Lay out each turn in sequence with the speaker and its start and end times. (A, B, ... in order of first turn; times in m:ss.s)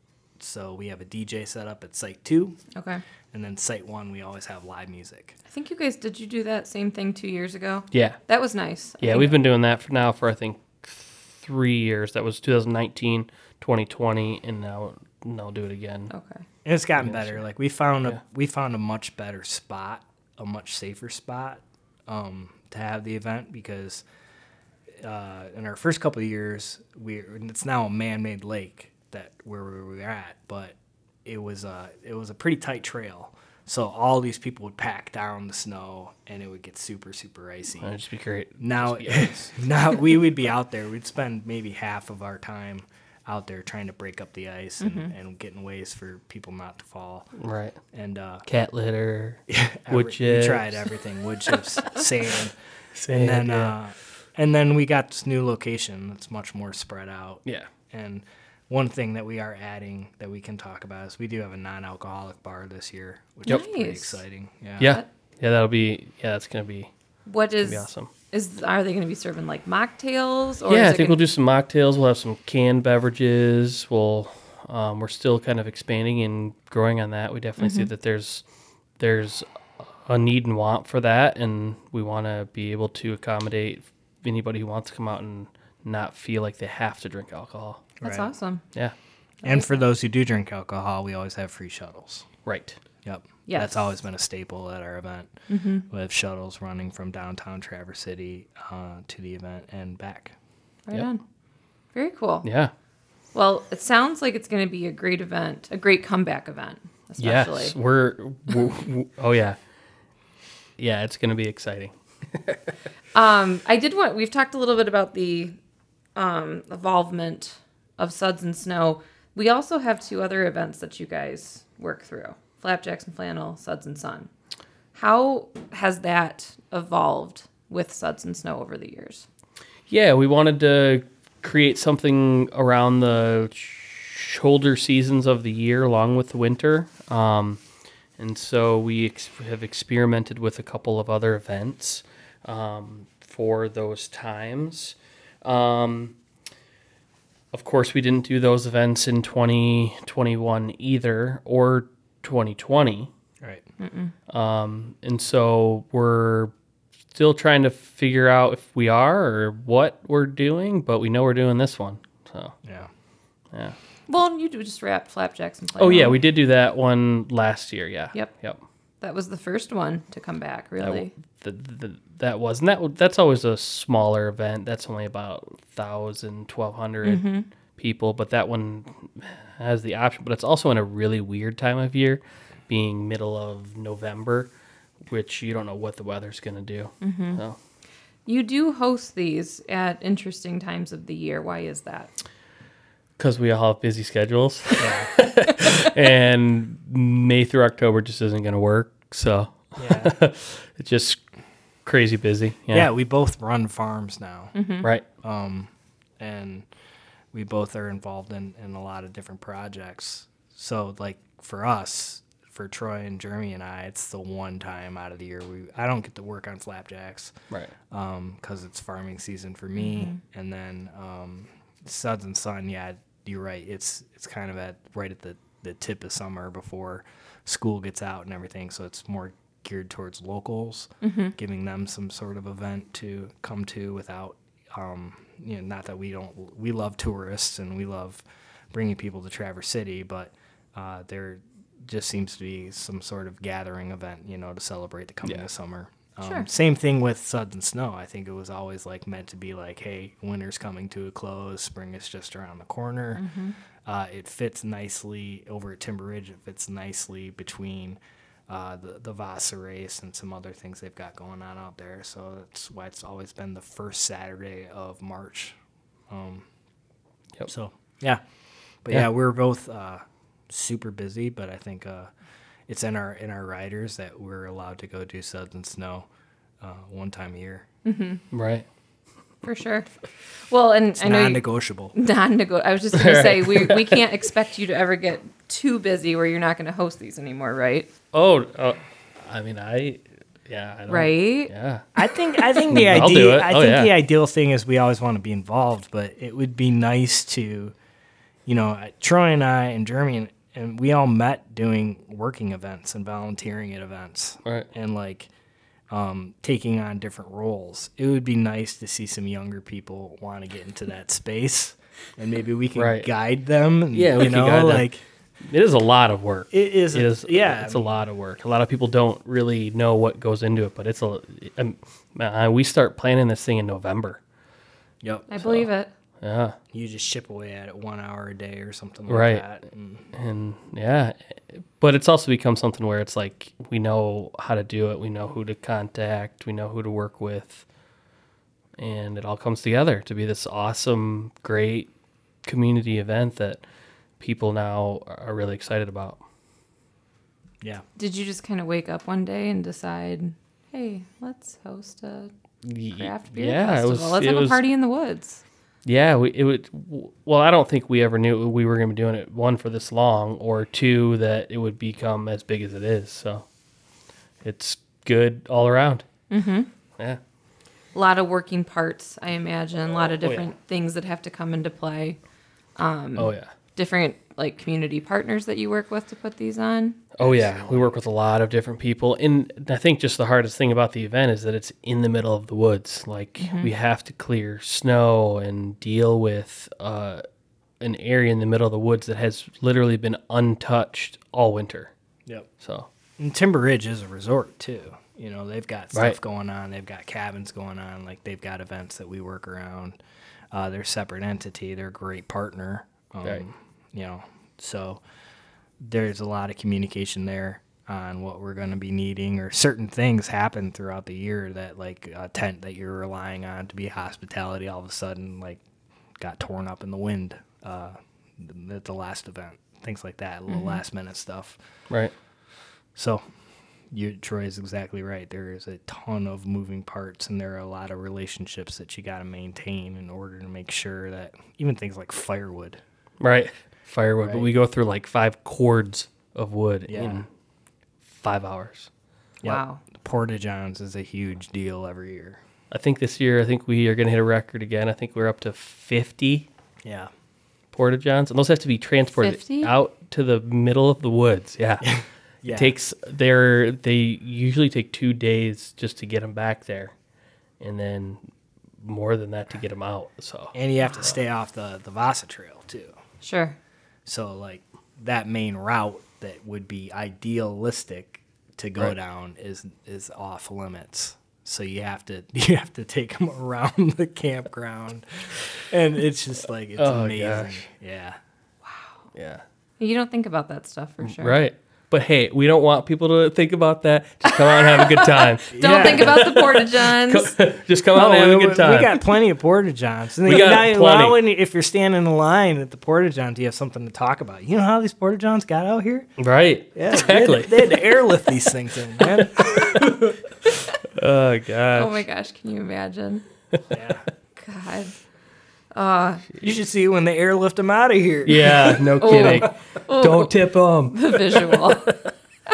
0:00.4-0:02.6 A
0:02.7-0:03.0 B
0:03.3-0:05.4 A
0:05.5-0:09.3 B
0:07.9-0:08.2 C
0:09.0-0:16.1 C
0:16.1-0:16.4 B
0:16.6-0:24.0 A
0:17.0-0:17.4 C
0:24.9-0:37.9 A
0:37.8-0:39.5 C
0:38.6-0:47.3 A
0:44.8-0:45.1 B
0:47.4-0:47.8 C
0:47.9-0:48.5 A
0:48.5-0:50.8 C
0:49.5-0:52.5 A
0:52.9-0:53.8 C
0:53.1-1:05.0 A
1:03.4-1:04.2 B
1:04.8-1:06.9 C
1:07.3-1:11.2 B
1:07.6-1:08.1 C
1:10.6-1:18.4 C
1:17.6-1:17.9 B
1:19.0-1:27.9 C
1:28.0-1:28.6 B
1:28.0-1:28.3 A
1:29.4-1:29.8 B
1:29.4-1:32.3 A
1:32.4-1:32.8 C
1:33.0-1:35.3 A
1:33.5-1:33.9 B
1:35.5-1:35.8 B
1:35.9-1:40.3 A
1:40.9-1:41.2 B
1:41.9-1:42.5 B
1:42.4-1:42.7 C
1:43.3-1:47.7 B
1:47.2-1:49.6 C
1:50.8-1:52.6 C
1:53.1-1:55.6 B
1:56.2-2:04.3 B
2:04.9-2:09.2 B
2:09.9-2:17.6 C
2:18.2-2:26.1 C
2:27.5-2:33.1 C
2:33.8-2:34.1 B
2:34.3-2:36.5 C
2:37.1-2:42.5 C
2:42.6-2:42.9 A
2:44.1-2:46.2 B
2:45.8-2:48.6 C
2:49.0-2:51.1 B
2:50.8-3:04.5 C
2:57.0-2:57.5 B
3:05.1-3:07.6 C
3:07.0-3:07.4 B
3:08.2-3:12.1 B
3:13.2-3:21.2 C
3:14.8-3:15.1 A
3:19.8-3:20.1 A
3:21.8-3:22.9 C
3:22.7-3:24.5 A
3:24.5-3:24.9 B
3:25.2-3:26.6 A
3:27.3-3:37.3 A
3:37.9-4:13.2 A
3:51.0-3:51.3 B
4:06.2-4:06.5 B
4:13.2-4:13.5 B
4:13.8-4:25.6 A
4:26.1-4:26.5 A
4:27.5-4:28.2 A
4:28.8-4:32.1 A
4:32.7-4:36.1 A
4:36.6-4:37.7 A
4:37.8-4:38.2 B
4:38.3-4:38.6 C
4:39.4-4:39.9 B
4:40.5-4:41.4 B
4:41.0-4:41.9 A
4:41.9-4:47.9 B
4:42.9-4:44.0 C
4:48.1-4:51.9 C
4:50.9-4:51.5 B
4:52.0-4:57.7 A
4:52.6-4:53.9 C
4:58.4-5:05.3 A
5:05.9-5:15.0 A
5:12.8-5:13.1 C
5:13.9-5:24.2 C
5:16.5-5:17.9 A
5:25.0-5:25.3 A
5:25.3-5:25.9 B
5:25.4-5:25.7 C
5:26.2-5:26.6 C
5:26.7-5:30.0 A
5:29.1-5:29.4 C
5:30.1-5:37.6 C
5:38.8-5:41.9 C
5:42.4-5:43.6 C
5:44.2-5:46.2 C
5:48.0-5:52.3 B
5:52.6-5:54.6 C
5:52.9-5:55.4 B
5:55.8-6:03.4 C
6:04.4-6:06.0 C
6:06.3-6:06.7 B
6:07.9-6:12.2 B
6:10.2-6:10.5 C
6:12.8-6:17.0 B
6:13.2-6:13.5 C
6:17.2-6:27.2 C
6:17.2-6:17.9 A
6:23.4-6:23.7 B
6:27.8-6:31.9 C
6:32.6-6:32.9 C
6:33.2-6:40.0 A
6:40.5-6:45.0 A
6:45.8-6:55.6 A
6:56.2-7:01.6 A
7:03.0-7:03.2 A
7:03.9-7:12.8 A
7:13.2-7:17.3 C
7:14.2-7:14.5 A
7:16.9-7:17.2 A
7:18.1-7:18.9 C
7:19.4-7:22.4 A
7:19.4-7:19.8 B
7:22.7-7:26.5 C
7:26.8-7:27.1 A
7:27.7-7:31.9 C
7:29.2-7:29.7 B
7:31.8-7:32.7 A
7:32.5-7:36.9 C
7:37.6-7:38.2 C
7:38.8-7:40.5 C
7:40.5-7:42.9 A
7:43.2-7:43.6 B
7:44.0-7:58.2 A
7:56.8-7:57.6 C
7:58.6-7:58.9 B
7:59.1-7:59.4 C
7:59.8-8:01.4 B
8:01.0-8:09.0 C
8:04.2-8:07.4 B
8:05.5-8:06.3 A
8:07.9-8:16.1 A
8:10.2-8:11.2 C
8:16.2-8:17.8 C
8:16.7-8:20.1 A
8:20.8-8:22.0 C
8:21.7-8:23.2 B
8:23.7-8:24.0 A
8:24.4-8:24.9 B
8:25.7-8:26.3 B
8:26.4-8:29.5 A
8:28.2-8:31.9 C
8:29.0-8:30.3 B
8:30.9-8:32.0 B